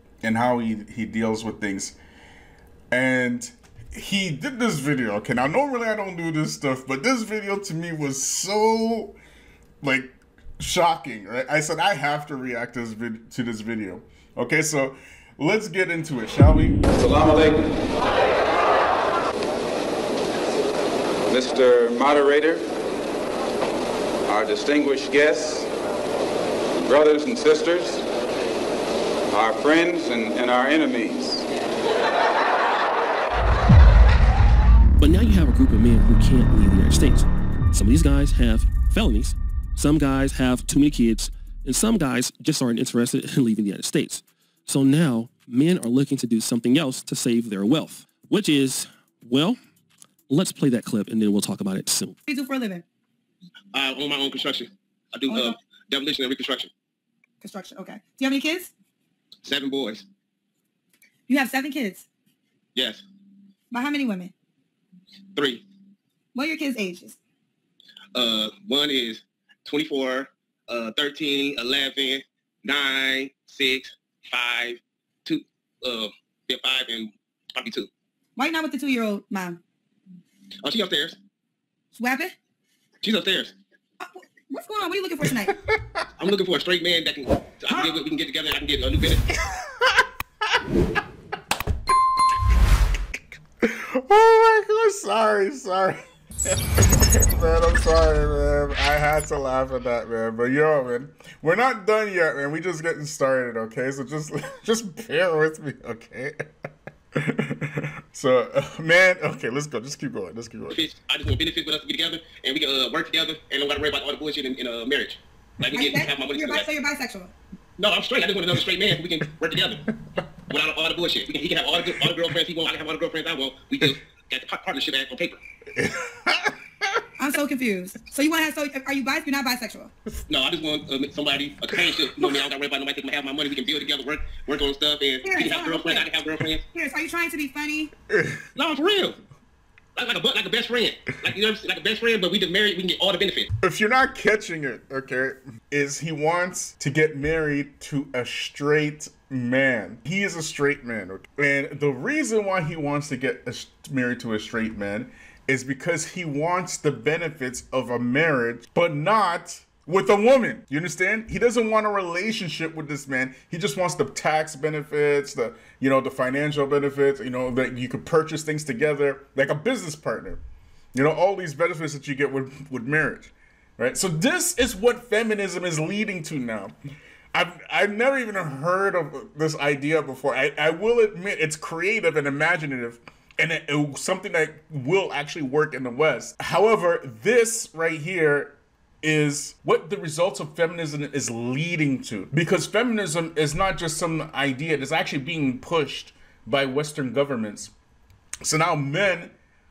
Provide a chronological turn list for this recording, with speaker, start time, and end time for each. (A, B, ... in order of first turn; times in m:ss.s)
0:00.2-0:02.0 A
0:02.9-0:09.2 A
0:09.8-0:16.8 A
0:16.9-0:17.7 B
0:21.3-0:22.6 B
0:24.3-0:25.7 B
0:26.8-0:28.0 B
0:29.3-0:31.4 B
0:35.0-0:49.6 C
0:50.3-0:52.2 C
0:52.2-0:52.8 D
0:53.7-0:56.7 E
0:55.3-0:55.6 D
0:57.4-0:58.7 D
0:59.4-1:00.0 E
1:01.3-1:02.1 D
1:02.7-1:03.0 E
1:03.7-1:04.3 D
1:05.3-1:05.6 E
1:06.3-1:07.2 D
1:08.1-1:17.9 E
1:18.4-1:19.6 D
1:20.6-1:21.2 E
1:21.9-1:22.3 D
1:23.0-1:23.5 E
1:24.0-1:25.6 D
1:26.2-1:29.2 E
1:29.4-1:30.0 A
1:33.6-1:46.4 A
1:47.2-1:50.8 A
1:50.7-1:56.7 E
1:55.7-1:57.3 D
1:57.8-1:59.9 E
2:00.5-2:05.4 E
2:05.7-2:06.6 A
2:07.2-2:09.9 D
2:10.3-2:16.6 E
2:15.2-2:16.1 D
2:16.7-2:17.9 D
2:18.1-2:18.4 A
2:18.6-2:19.2 E
2:20.0-2:23.5 E
2:23.6-2:50.4 A
2:50.9-2:56.7 A
2:57.3-3:17.7 A
3:18.4-3:19.3 A